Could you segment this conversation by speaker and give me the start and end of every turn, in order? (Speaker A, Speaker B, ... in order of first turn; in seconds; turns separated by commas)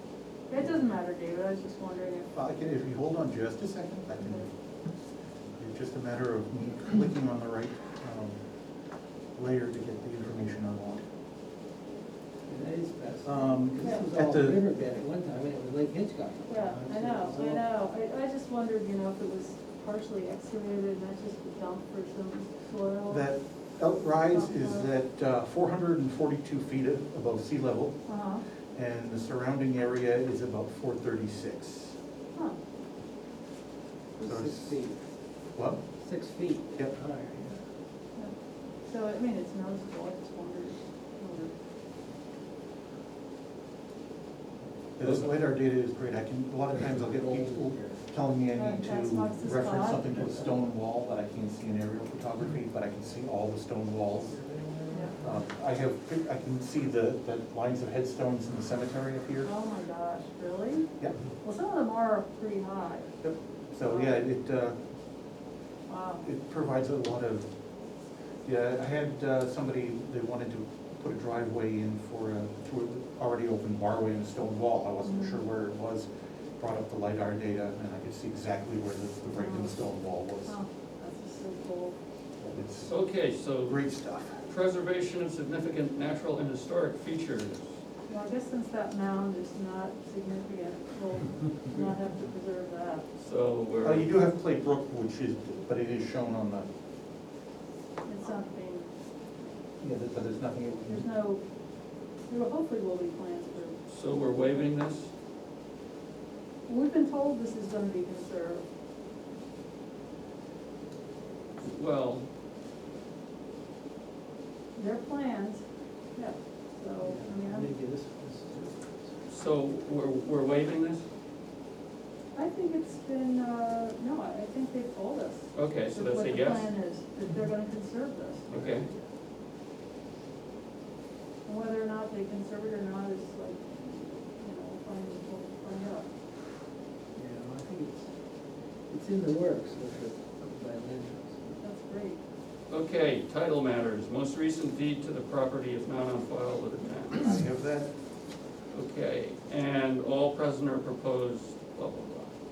Speaker A: 0.5-2.3, Speaker B: 2.3-4.5, Speaker B: 5.6-8.4, Speaker B: 9.3-11.0, Speaker C: 12.4-17.7, Speaker B: 13.2-14.6, Speaker A: 13.8-14.1, Speaker A: 16.4-23.3, Speaker B: 23.1-27.9, Speaker A: 24.2-24.9, Speaker A: 28.1-28.4, Speaker B: 28.7-31.9, Speaker C: 34.1-35.0, Speaker B: 34.2-34.7, Speaker B: 35.5-35.8, Speaker C: 36.0-37.6, Speaker A: 38.9-41.5, Speaker B: 45.0-54.3, Speaker C: 45.0-45.3, Speaker C: 46.8-48.0, Speaker A: 48.5-50.1, Speaker C: 50.1-50.5, Speaker C: 54.3-55.2, Speaker A: 54.9-55.2, Speaker B: 55.2-59.5, Speaker A: 59.4-60.9, Speaker A: 61.4-63.1, Speaker B: 63.2-64.8, Speaker A: 63.8-64.2, Speaker A: 65.9-66.2, Speaker B: 66.2-67.5, Speaker B: 68.4-76.1, Speaker A: 75.0-75.4, Speaker B: 76.6-80.6, Speaker A: 79.3-79.8, Speaker A: 80.5-81.9, Speaker B: 82.4-82.9, Speaker D: 82.8-83.8, Speaker B: 83.6-84.5, Speaker D: 84.5-87.7, Speaker A: 88.1-93.0, Speaker D: 93.2-94.1, Speaker B: 93.8-96.7, Speaker A: 98.0-98.9, Speaker B: 99.8-101.0, Speaker A: 100.9-101.4, Speaker A: 102.3-103.8, Speaker D: 103.9-105.1, Speaker A: 106.7-108.6, Speaker D: 111.6-112.3, Speaker A: 114.7-115.6, Speaker A: 116.1-117.7, Speaker C: 117.0-119.1, Speaker D: 119.3-121.0, Speaker A: 122.3-128.6, Speaker D: 125.5-126.7, Speaker D: 128.5-128.9, Speaker C: 128.5-129.0, Speaker A: 131.4-136.1, Speaker C: 137.1-138.1, Speaker C: 138.9-141.6, Speaker A: 141.6-142.2, Speaker D: 142.7-147.3, Speaker B: 147.1-147.9, Speaker D: 148.7-152.3